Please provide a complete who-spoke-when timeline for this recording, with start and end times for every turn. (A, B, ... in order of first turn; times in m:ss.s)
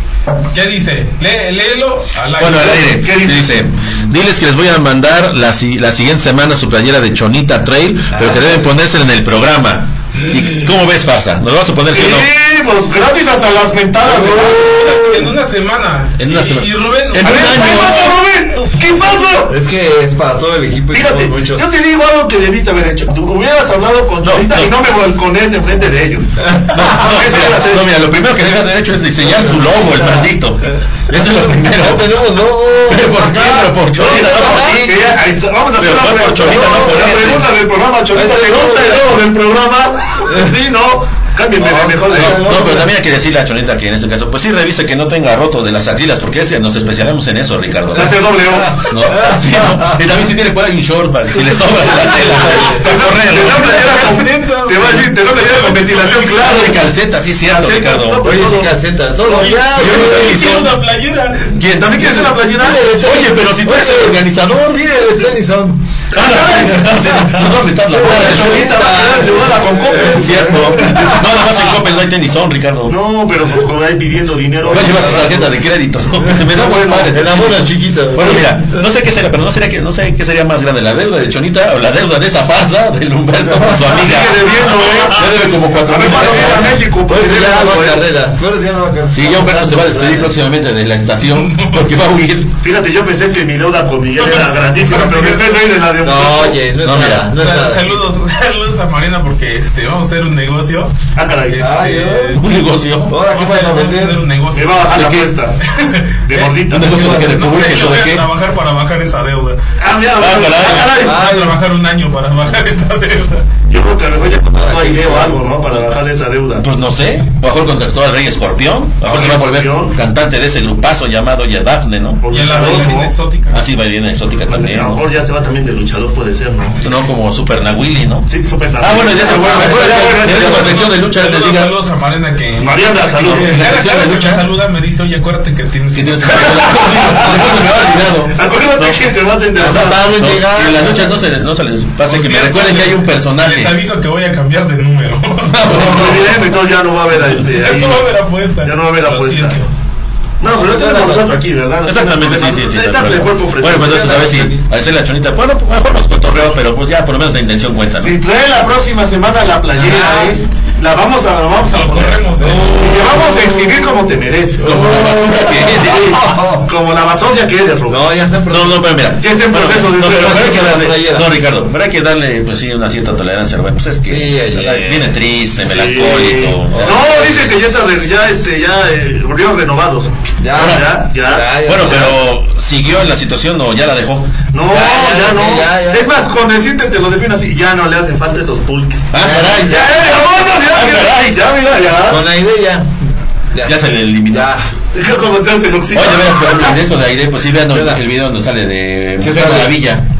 0:00.5-0:03.0 A
0:02.4-0:12.3 B
0:02.9-0:03.5 C
0:08.1-0:08.8 D
0:11.9-0:14.8 C
0:14.0-0:15.3 D
0:14.5-0:18.7 A
0:16.2-0:18.1 B
0:17.2-0:19.5 C
0:19.5-0:21.7 D
0:20.9-0:27.9 C
0:24.2-0:24.7 B
0:26.4-0:26.9 D
0:26.7-0:32.2 B
0:29.2-0:34.9 D
0:32.9-0:35.1 B
0:34.0-0:42.6 C
0:35.8-0:37.5 B
0:38.1-0:39.1 D
0:40.3-0:40.5 D
0:41.6-0:42.9 D
0:42.1-0:48.2 B
0:47.9-0:48.9 C
0:48.8-0:50.0 D
0:48.8-0:54.1 B
0:51.8-0:52.8 D
0:52.8-0:56.8 C
0:52.8-0:56.5 A
0:56.3-0:58.2 B
0:57.4-0:58.7 C
0:58.2-1:00.7 D
0:59.3-1:01.6 A
0:59.7-1:00.7 B
1:01.6-1:02.4 B
1:01.8-1:02.9 C
1:02.4-1:05.9 D
1:02.9-1:04.8 B
1:06.1-1:06.9 C
1:06.1-1:08.8 B
1:06.4-1:11.5 D
1:08.0-1:10.7 C
1:10.0-1:12.9 B
1:12.9-1:15.4 C
1:14.7-1:26.8 B
1:14.7-1:15.5 D
1:16.5-1:17.2 C
1:17.1-1:18.8 D
1:23.4-1:24.0 D
1:23.9-1:25.3 C
1:25.8-1:28.0 C
1:26.0-1:30.3 D
1:29.1-1:32.5 B
1:31.2-1:31.9 A
1:32.6-1:36.6 C
1:34.2-1:35.7 A
1:36.0-1:38.0 D
1:36.8-1:37.3 B
1:37.3-1:41.0 A
1:41.1-1:41.7 C
1:41.5-1:42.5 A
1:41.6-1:42.4 D
1:42.4-1:43.1 B
1:43.1-1:44.2 D
1:43.1-1:45.0 A
1:44.5-1:45.6 C
1:44.9-1:45.3 B
1:45.7-1:49.6 A
1:46.2-1:46.9 C
1:46.7-1:48.2 B
1:46.9-1:47.3 D
1:49.8-1:51.2 C
1:50.2-1:51.0 B
1:51.0-1:51.6 D
1:51.0-1:53.4 A
1:53.7-1:56.6 C
1:54.6-1:55.4 D
1:56.6-2:02.2 B
1:59.0-2:00.0 C
2:02.2-2:03.1 C
2:02.3-2:03.6 A
2:03.5-2:05.0 B
2:04.5-2:06.8 C
2:06.8-2:08.3 B
2:08.3-2:10.8 C
2:08.8-2:11.8 B
2:09.6-2:17.3 A
2:12.6-2:13.5 C
2:13.2-2:14.5 B
2:13.3-2:13.6 D
2:15.9-2:19.0 B
2:16.6-2:17.3 C
2:18.3-2:20.1 C
2:19.6-2:21.2 D
2:19.6-2:23.8 B
2:22.0-2:26.2 A
2:25.5-2:26.4 B
2:25.7-2:28.1 C
2:27.3-2:29.7 A
2:28.6-2:29.6 C
2:30.4-2:34.5 C
2:30.4-2:31.4 D
2:31.8-2:38.1 B
2:38.0-2:44.9 C
2:39.8-2:40.4 D
2:41.6-2:42.8 A
2:42.4-2:44.0 D
2:44.6-2:46.7 D
2:44.6-2:46.2 B
2:45.8-2:48.1 C
2:47.9-2:48.8 D
2:48.5-2:57.5 B
2:49.2-2:50.8 C
2:50.1-2:51.3 D
2:54.0-2:55.2 D
2:55.6-3:02.0 C
2:56.7-2:57.5 D
3:00.4-3:02.2 D
3:00.6-3:00.8 B
3:01.6-3:04.3 B
3:04.5-3:12.2 C
3:04.6-3:06.1 D
3:09.1-3:11.3 B
3:09.2-3:10.0 D
3:12.1-3:13.0 D
3:13.5-3:14.7 D
3:13.6-3:14.5 B
3:14.9-3:16.8 C
3:15.9-3:20.0 B
3:17.7-3:18.0 D
3:19.2-3:19.8 D